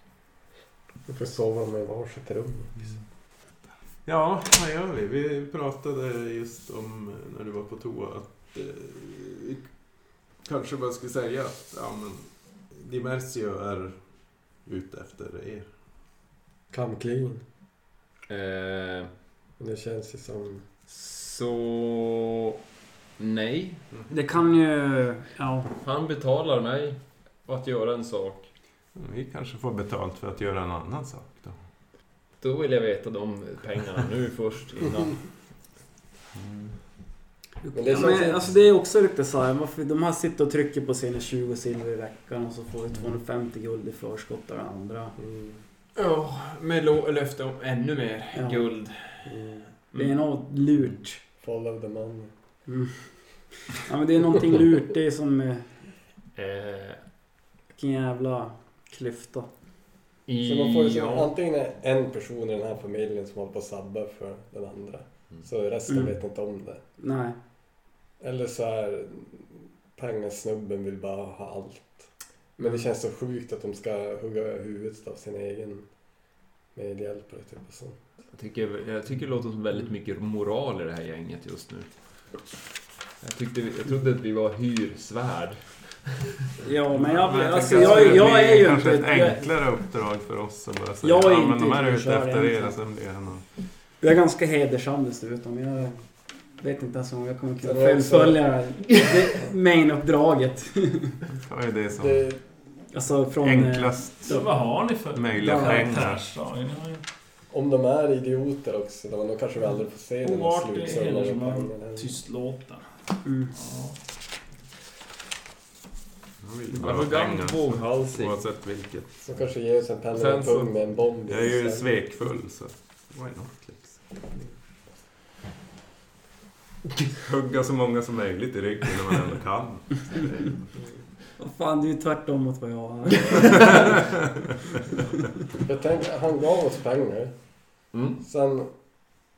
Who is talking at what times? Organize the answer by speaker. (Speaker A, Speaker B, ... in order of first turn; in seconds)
Speaker A: 1.1-3.0, 16.7-17.4, 19.6-20.7, 37.7-38.6, 45.2-45.6, 49.2-49.7, 51.4-52.3, 60.4-66.8, 68.2-78.0, 97.6-98.6, 102.0-102.4, 107.5-112.1, 119.2-121.9, 135.6-138.7
Speaker B: 4.0-9.8, 10.3-15.7, 28.9-31.6, 36.4-36.7, 86.9-93.4, 101.4-102.3, 103.4-104.4, 105.1-106.2, 116.4-119.2, 121.3-124.1, 127.2-130.5
Speaker C: 18.3-19.1, 20.9-22.5, 23.2-23.9, 25.8-28.5, 32.4-35.3, 46.0-49.4, 49.9-50.2, 56.4-57.0, 60.3-61.3, 78.3-82.2, 83.2-86.3, 116.7-118.5, 120.1-121.0, 137.9-138.2
Speaker D: 24.1-25.7, 37.6-45.2, 48.3-48.7, 49.9-51.2, 52.7-55.9, 57.8-59.5, 65.9-66.2, 67.0-67.4, 86.6-89.5, 91.0-92.8, 94.0-101.2, 102.9-104.5, 105.4-105.9, 113.2-113.5, 131.4-134.0
Speaker E: 104.3-107.0, 110.2-112.9, 113.5-114.0